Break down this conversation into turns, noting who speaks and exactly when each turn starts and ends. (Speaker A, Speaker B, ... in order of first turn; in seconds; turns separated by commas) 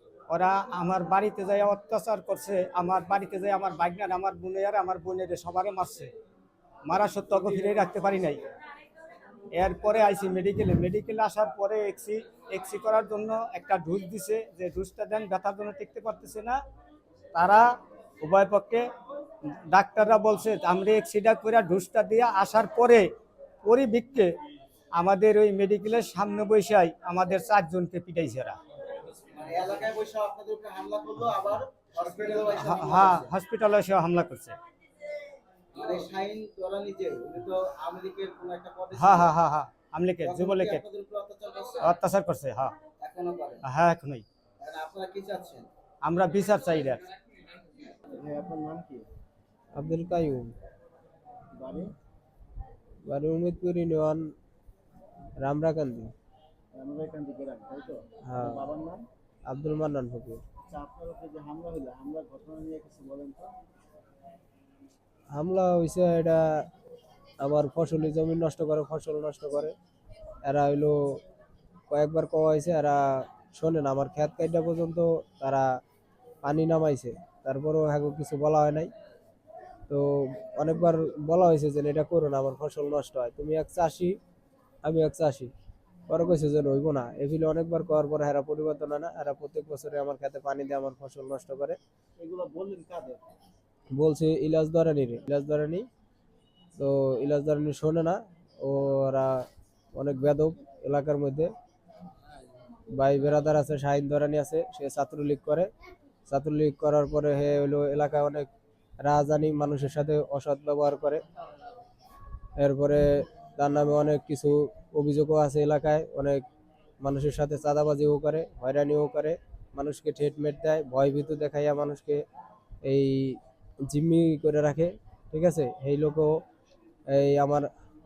Speaker A: 0.3-6.1, Speaker A: 6.8-8.4, Speaker A: 9.5-16.6, Speaker A: 17.3-17.6, Speaker A: 18.2-18.8, Speaker A: 19.7-23.1, Speaker A: 23.6-24.3, Speaker A: 25.0-28.6, Speaker B: 29.3-33.3, Speaker A: 32.6-34.5, Speaker B: 35.7-39.3, Speaker A: 38.9-40.8, Speaker B: 40.2-41.9, Speaker A: 41.8-42.7, Speaker B: 43.0-43.6, Speaker A: 43.6-44.2, Speaker B: 44.6-45.7, Speaker A: 46.0-47.0, Speaker B: 48.1-49.1, Speaker C: 49.7-50.5, Speaker B: 51.5-51.9, Speaker C: 53.1-54.2, Speaker C: 55.4-56.1, Speaker B: 56.7-59.0, Speaker C: 58.3-58.6, Speaker C: 59.5-60.4, Speaker B: 60.7-63.5, Speaker C: 65.3-66.5, Speaker C: 67.4-69.7, Speaker C: 70.4-71.2, Speaker C: 71.9-75.7, Speaker C: 76.4-78.9, Speaker C: 79.9-84.2, Speaker C: 84.8-85.5, Speaker C: 86.1-91.8, Speaker B: 92.2-93.2, Speaker C: 93.9-95.9, Speaker C: 96.8-101.5, Speaker C: 103.0-105.7, Speaker C: 106.3-108.5, Speaker C: 109.0-111.2, Speaker C: 112.6-116.4, Speaker C: 117.0-122.2, Speaker C: 122.8-126.4, Speaker C: 127.1-127.7